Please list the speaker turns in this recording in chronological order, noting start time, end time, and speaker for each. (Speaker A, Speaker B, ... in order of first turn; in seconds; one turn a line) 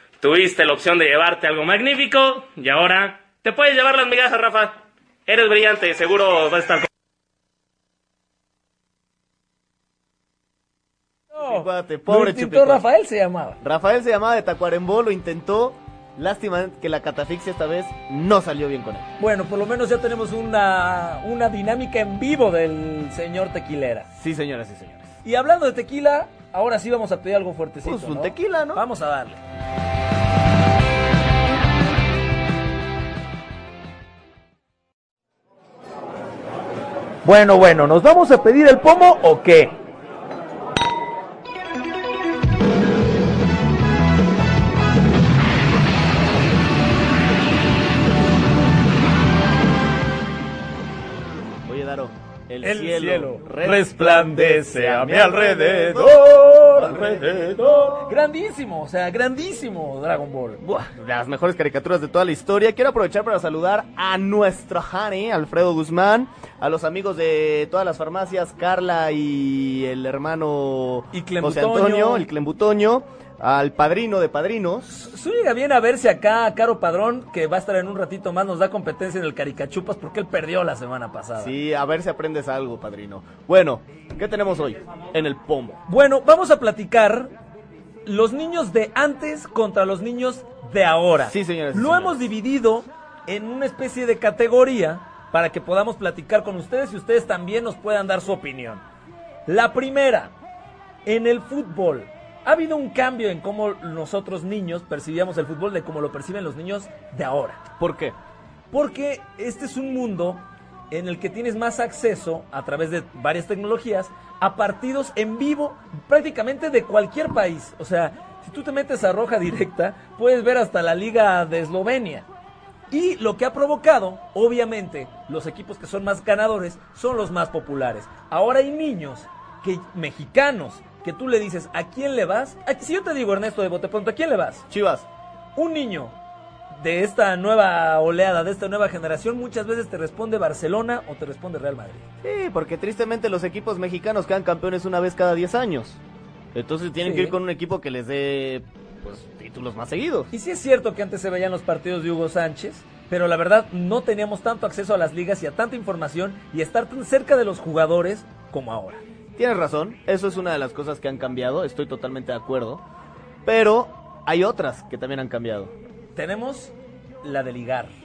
Speaker A: 0.2-4.7
Speaker A: 5.3-6.8
Speaker B: 11.3-13.6
Speaker C: 11.4-12.8
Speaker C: 13.6-19.1
Speaker B: 19.2-24.1
Speaker C: 24.1-25.1
Speaker B: 25.2-29.4
Speaker C: 27.8-28.8
Speaker B: 37.2-39.8
Speaker C: 51.6-57.9
Speaker B: 52.6-60.8
Speaker C: 60.7-74.9
Speaker B: 71.1-72.3
Speaker B: 74.9-81.5
Speaker C: 81.4-85.8
Speaker B: 85.9-87.3
Speaker B: 88.0-98.8
Speaker C: 91.2-92.3
Speaker B: 99.5-100.3
Speaker B: 101.0-107.6
Speaker C: 107.8-108.1
Speaker B: 108.7-122.2
Speaker B: 122.9-134.7
Speaker C: 134.7-135.1
Speaker B: 135.6-136.2
Speaker B: 136.7-142.0
Speaker C: 142.2-146.0
Speaker C: 146.5-150.3
Speaker B: 147.0-147.4
Speaker B: 150.3-159.0
Speaker C: 159.4-162.8
Speaker C: 163.4-165.7
Speaker B: 166.2-167.9